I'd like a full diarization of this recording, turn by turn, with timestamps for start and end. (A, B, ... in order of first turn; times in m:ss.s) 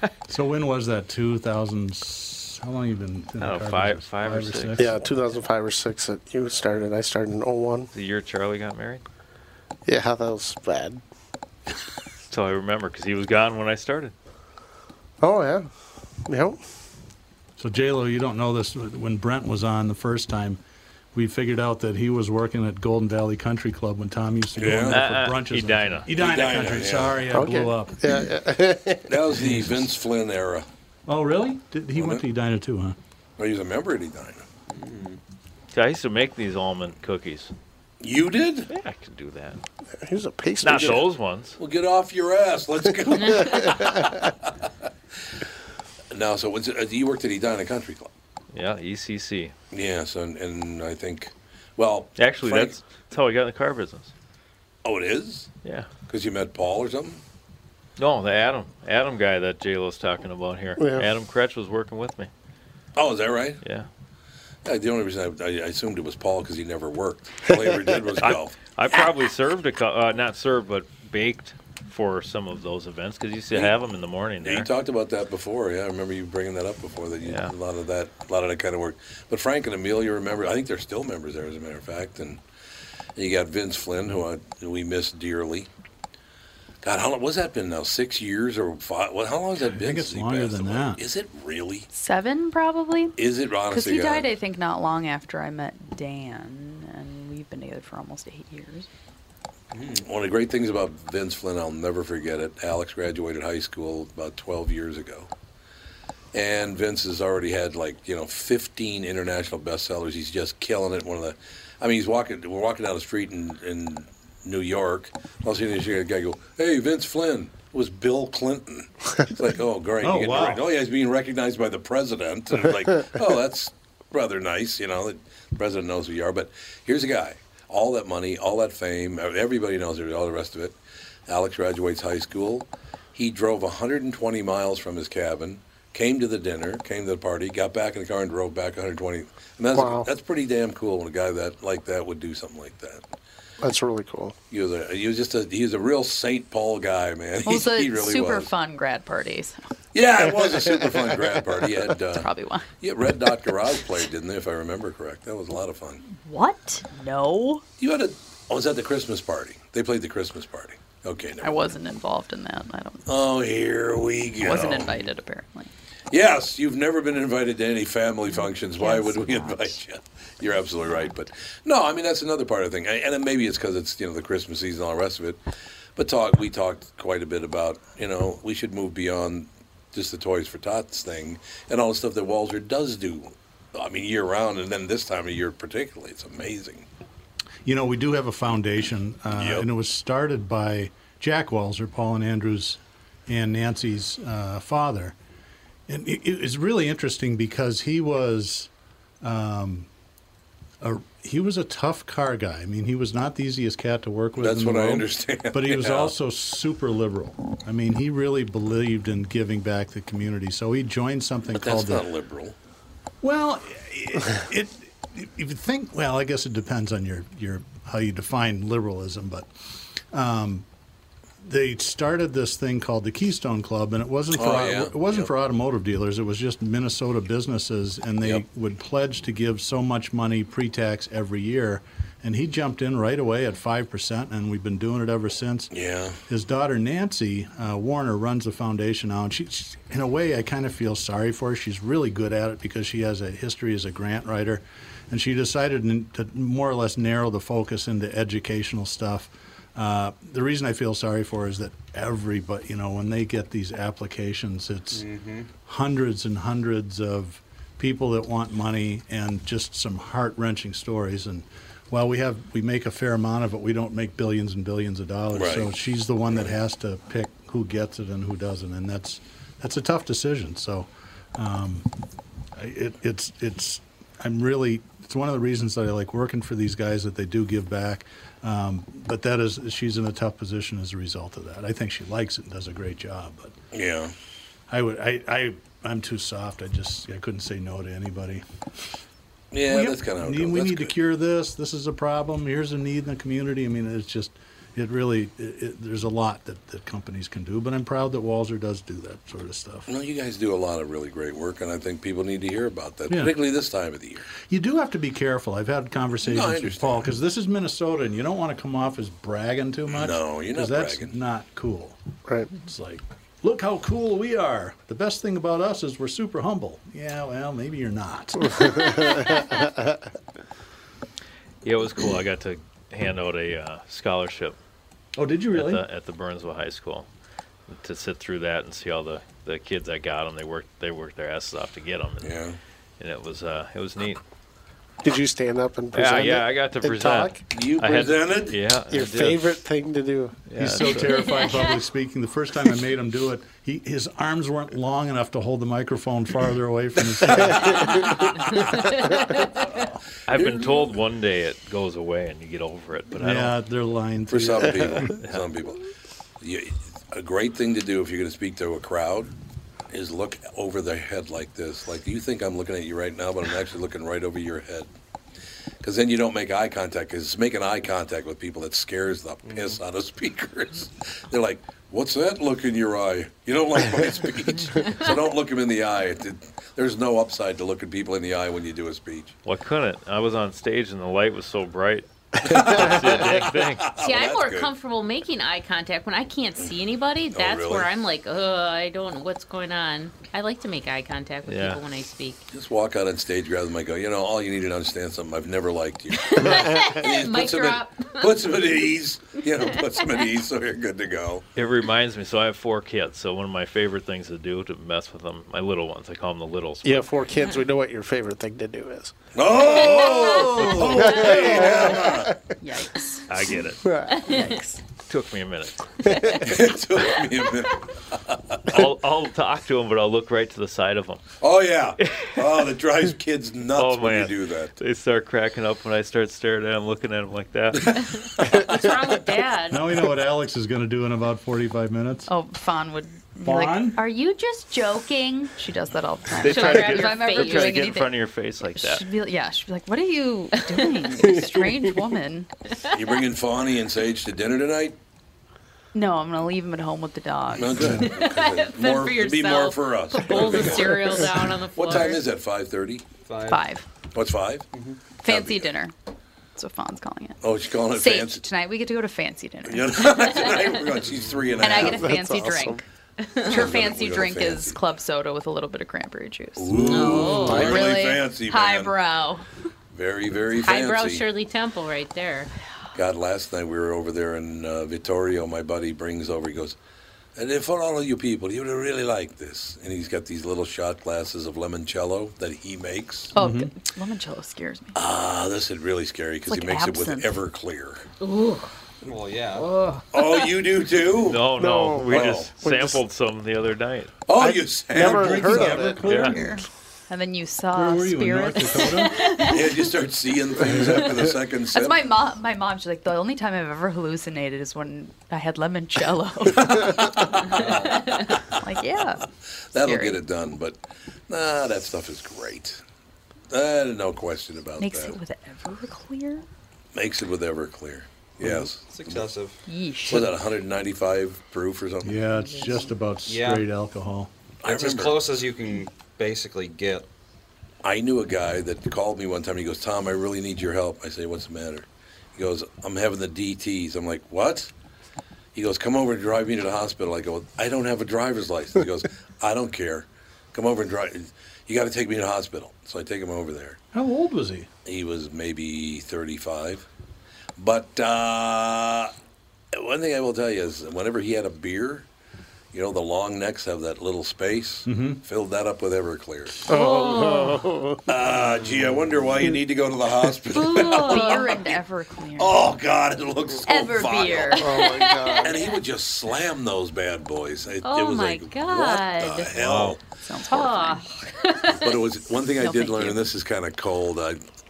0:00.3-0:04.9 A
0:03.4-0:04.8 B
0:04.8-0:07.9 C
0:07.9-0:09.0 B
0:09.8-0:11.0 C
0:12.3-0:14.1 B
0:15.2-0:15.7 C
0:16.2-0:16.6 C
0:17.6-0:20.6 A
0:21.1-0:28.0 A
0:24.6-0:25.0 D
0:24.9-0:26.1 B
0:26.1-0:27.2 D
0:27.3-0:29.2 C
0:29.1-0:30.7 D
0:29.4-0:29.8 A
0:31.1-0:33.0 A
0:32.0-0:32.2 D
0:33.4-0:34.4 D
0:34.7-0:35.2 E
0:35.7-0:37.5 B
0:38.0-0:38.7 D
0:38.7-0:39.6 B
0:40.0-0:41.1 C
0:40.6-0:41.6 B
0:41.6-0:44.5 D
0:43.1-0:44.1 C
0:46.1-0:48.1 D
0:48.5-0:49.5 B
0:49.7-0:52.8 D
0:52.2-0:54.1 B
0:54.8-0:55.5 D
0:55.6-0:55.9 B
0:56.1-0:57.2 D
0:58.0-1:02.3 B
1:00.8-1:01.1 C
1:03.0-1:03.6 D
1:03.6-1:03.9 B
1:04.6-1:08.6 D
1:08.2-1:14.7 B
1:14.4-1:22.4 D
1:17.2-1:17.5 B
1:23.2-1:25.7 D
1:26.8-1:31.9 D
1:29.6-1:31.0 A
1:31.9-1:33.2 F
1:33.2-1:34.3 D
1:33.7-1:38.9 F
1:39.8-1:45.3 D
1:46.3-2:10.8 D
2:00.0-2:00.6 A
2:11.3-2:23.0 D
2:19.7-2:20.1 C
2:23.6-2:24.3 C
2:24.5-2:28.5 D
2:27.4-2:29.6 F
2:29.9-2:32.3 D
2:32.2-2:32.7 F
2:32.8-2:36.0 D
2:36.1-2:37.6 F
2:37.8-2:41.5 D
2:41.4-2:43.0 F
2:43.0-2:45.0 D
2:44.4-2:45.7 F
2:46.1-2:55.4 D
2:48.3-2:49.8 F
2:56.0-3:06.9 D
3:07.6-3:15.1 A
3:09.3-3:09.6 D
3:15.9-3:18.7 A
3:19.2-3:19.9 A
3:20.8-3:32.1 A
3:24.4-3:26.1 D
3:31.5-3:32.5 D
3:33.2-3:39.5 A
3:40.1-3:40.6 A
3:41.4-3:55.7 A
3:44.4-3:45.3 D
3:55.7-3:56.2 D
3:56.3-4:15.1 A
4:14.9-4:15.5 E
4:15.6-4:31.9 A
4:25.3-4:25.7 D
4:32.6-4:43.6 A
4:43.7-4:44.1 D
4:44.7-4:48.4 A
4:49.5-4:50.9 D
4:49.6-4:59.9 A
4:59.9-5:04.2 D
5:04.4-5:12.0 A
5:06.2-5:07.0 D
5:09.9-5:11.1 D
5:12.5-5:18.8 A
5:18.5-5:19.9 C
5:21.6-5:24.6 B
5:25.2-5:25.8 A
5:25.5-5:27.1 B
5:27.7-5:32.3 B
5:32.2-5:32.6 D
5:33.0-5:34.2 B
5:35.0-5:37.4 C
5:35.9-5:39.6 B
5:37.5-5:38.6 D
5:38.9-5:40.4 C
5:40.5-5:41.3 B
5:40.6-5:47.9 A
5:41.3-5:41.7 G
5:47.4-5:48.7 D
5:50.3-5:53.6 B
5:50.3-5:50.9 D
5:53.2-5:55.1 A
5:54.3-5:55.8 D
5:55.2-5:55.5 B
5:56.4-5:59.3 D
5:59.9-6:04.9 D
6:05.8-6:19.3 D
6:14.6-6:15.1 G
6:19.4-6:24.0 B
6:22.4-6:24.7 D
6:22.5-6:22.8 C
6:23.9-6:32.4 G
6:27.3-6:27.9 D
6:31.4-6:31.8 B
6:32.5-6:41.4 D
6:36.2-6:38.6 G
6:39.6-6:40.2 G
6:41.5-6:47.1 B
6:46.8-6:49.1 C
6:49.3-6:52.3 D
6:49.7-6:53.3 F
6:50.1-6:50.6 G
6:50.8-6:52.4 C
6:53.3-6:53.9 B
6:53.8-6:54.3 C
6:54.2-6:54.5 G
6:54.2-6:54.8 F
6:55.1-6:56.0 B
6:56.0-6:56.5 C
6:56.3-6:57.6 G
6:56.4-6:58.8 D
6:58.7-7:01.2 B
7:01.4-7:04.8 D
7:03.8-7:08.0 B
7:07.9-7:09.8 G
7:09.7-7:12.3 A
7:12.3-7:22.5 F
7:13.4-7:14.0 A
7:16.4-7:19.0 B
7:16.4-7:17.9 G
7:20.6-7:21.0 G
7:21.3-7:21.7 C
7:22.8-7:23.2 G
7:22.9-7:25.0 D
7:25.9-7:28.0 F
7:27.5-7:33.0 D
7:27.8-7:28.1 A
7:28.0-7:32.2 G
7:33.2-7:33.7 E
7:33.5-7:33.8 F
7:34.1-7:34.7 D
7:34.7-7:35.0 E
7:35.2-7:35.9 F
7:35.2-7:35.7 D
7:36.6-7:40.5 F
7:37.4-7:38.4 D
7:39.7-7:42.1 D
7:41.6-7:42.8 F
7:41.7-7:42.8 C
7:43.3-7:49.4 F
7:43.4-7:44.8 D
7:46.6-7:48.9 D
7:46.8-7:47.7 G
7:47.3-7:47.9 C
7:49.9-7:51.2 D
7:50.6-7:52.5 G
7:52.9-7:56.8 D
7:57.4-8:03.3 D
8:03.3-8:04.9 F
8:03.4-8:03.7 A
8:04.9-8:08.0 D
8:06.5-8:07.4 F
8:08.2-8:08.7 G
8:09.0-8:09.7 E
8:09.7-8:10.0 G
8:10.1-8:11.4 D
8:11.2-8:14.1 B
8:11.5-8:13.0 C
8:12.1-8:12.5 D
8:14.3-8:15.8 D
8:14.4-8:16.2 C
8:14.9-8:16.5 A
8:16.0-8:16.4 B
8:16.1-8:19.8 F
8:17.7-8:19.3 A
8:19.5-8:22.0 D
8:21.7-8:27.9 F
8:28.5-8:29.2 F
8:29.7-8:30.8 D
8:29.8-8:30.2 F
8:31.3-8:32.8 D
8:33.5-8:35.2 D
8:34.8-8:36.4 F
8:36.9-8:39.2 D
8:38.8-8:39.6 E
8:39.7-8:40.3 F
8:40.1-8:42.2 D
8:42.0-8:44.3 A
8:42.4-8:42.9 F
8:43.2-8:43.7 E
8:44.6-8:45.3 D
8:44.6-8:47.1 E
8:47.8-8:54.7 D
8:55.5-9:03.8 D
9:03.9-9:04.7 A
9:04.8-9:06.8 D
9:07.6-9:09.1 D
9:09.7-9:12.0 D
9:12.7-9:16.6 D
9:14.8-9:15.2 A
9:16.7-9:18.0 C
9:16.7-9:17.6 G
9:18.1-9:21.8 D
9:20.5-9:21.6 G
9:20.7-9:22.7 F
9:22.4-9:24.6 D
9:23.6-9:24.8 F
9:24.5-9:25.6 C
9:24.6-9:25.8 G
9:25.4-9:30.0 D
9:27.8-9:29.6 G
9:29.6-9:29.9 B
9:30.1-9:31.2 F
9:30.4-9:32.0 G
9:31.7-9:34.4 D
9:32.6-9:33.2 F